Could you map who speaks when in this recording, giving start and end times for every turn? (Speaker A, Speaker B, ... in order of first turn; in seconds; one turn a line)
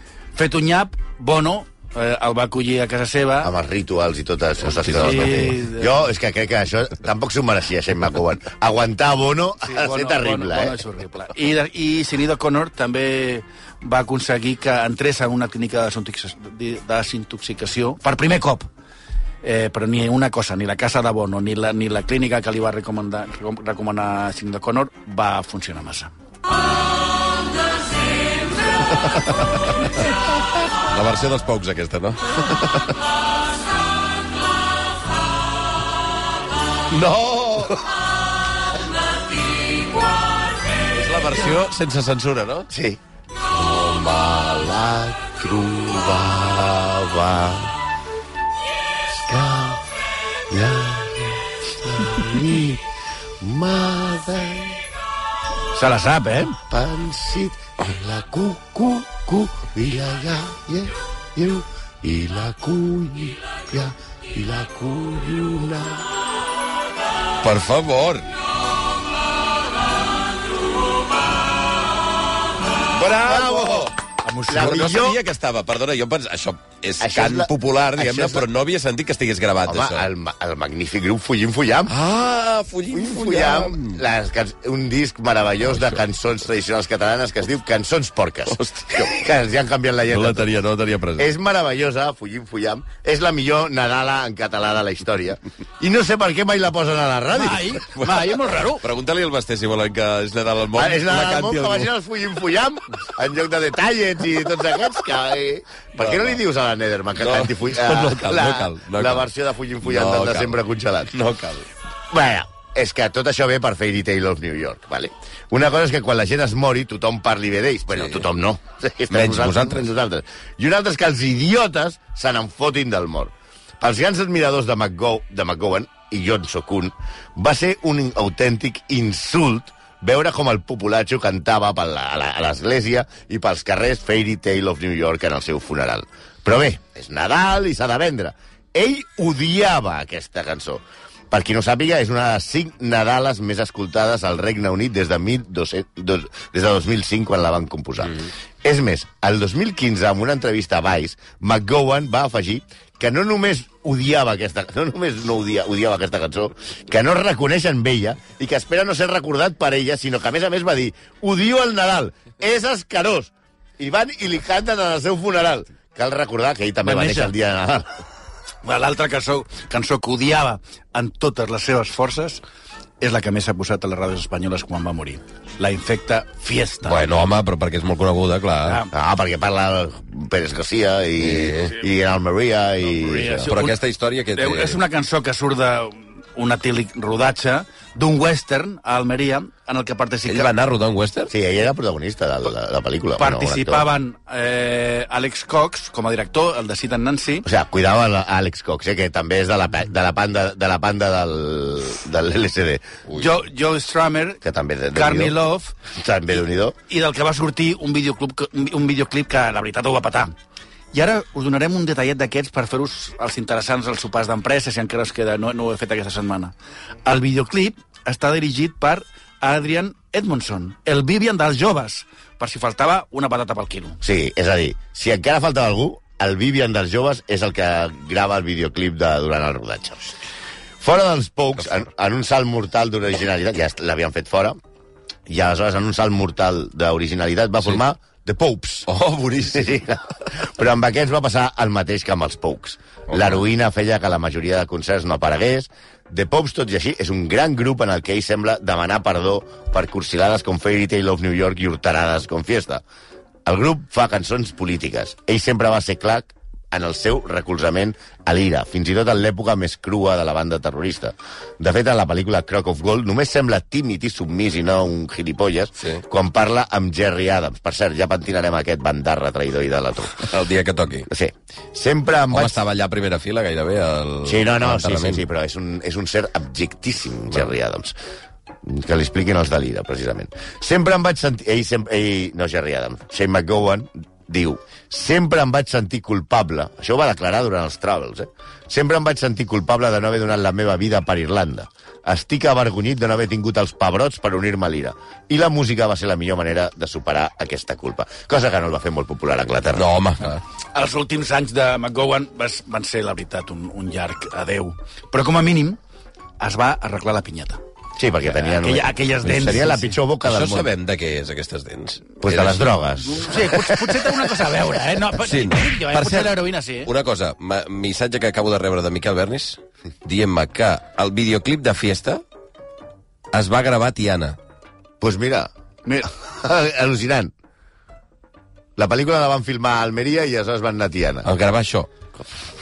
Speaker A: 0.3-3.5
Speaker B: 3.4-10.8
Speaker C: 4.6-5.5
Speaker A: 5.0-6.0
Speaker A: 9.6-18.7
Speaker A: 19.4-26.1
Speaker C: 30.9-32.9
Speaker C: 36.9-37.8
Speaker C: 40.9-42.7
Speaker B: 42.7-47.7
Speaker B: 49.1-49.9
Speaker B: 50.5-52.9
Speaker B: 53.4-54.8
Speaker A: 55.7-56.6
Speaker B: 56.7-66.1
Speaker C: 67.4-68.3
Speaker C: 72.9-73.9
Speaker B: 73.2-73.9
Speaker A: 74.2-75.1
Speaker B: 74.5-75.2
Speaker C: 74.5-80.1
Speaker B: 77.0-78.5
Speaker B: 79.7-82.0
Speaker C: 81.9-84.0
Speaker B: 82.9-90.5
Speaker C: 85.6-86.0
Speaker C: 88.5-89.1
Speaker C: 90.1-91.3
Speaker B: 91.2-97.8
Speaker A: 97.3-98.8
Speaker C: 97.9-101.9
Speaker B: 100.7-111.2
Speaker C: 106.0-106.4
Speaker C: 107.2-109.3
Speaker C: 109.8-110.6
Speaker C: 111.1-111.7
Speaker B: 112.1-167.9
Speaker C: 117.9-118.2
Speaker C: 119.1-119.9
Speaker A: 166.8-167.3
Speaker A: 168.6-172.4
Speaker A: 173.0-177.1
Speaker C: 176.8-178.8
Speaker A: 178.6-178.9
Speaker B: 178.9-183.5
Speaker C: 181.2-181.8
Speaker A: 183.1-183.8
Speaker C: 183.4-184.8
Speaker A: 184.4-190.5
Speaker C: 190.3-191.3
Speaker B: 191.3-193.9
Speaker A: 193.2-197.4
Speaker B: 197.4-202.9
Speaker A: 203.1-204.4
Speaker B: 204.4-205.4
Speaker A: 204.9-205.7
Speaker B: 205.9-206.8
Speaker A: 206.9-210.3
Speaker A: 210.9-224.0
Speaker B: 224.0-230.2
Speaker B: 230.8-234.6
Speaker B: 235.3-238.9
Speaker C: 238.9-239.8
Speaker B: 239.5-252.8
Speaker C: 243.1-243.4
Speaker B: 253.4-270.4
Speaker C: 270.2-271.1
Speaker B: 271.1-272.6
Speaker C: 272.3-275.2
Speaker B: 274.2-277.9
Speaker B: 278.6-299.9
Speaker C: 299.7-300.4
Speaker A: 300.7-305.8
Speaker A: 306.4-307.6
Speaker B: 308.0-310.7
Speaker A: 308.4-310.0
Speaker C: 310.2-312.8
Speaker B: 312.2-313.7
Speaker A: 313.0-316.9
Speaker C: 315.2-316.3
Speaker C: 316.9-322.2
Speaker C: 323.3-324.4
Speaker B: 325.0-325.5
Speaker B: 326.2-327.3
Speaker B: 328.8-331.3
Speaker C: 331.2-331.9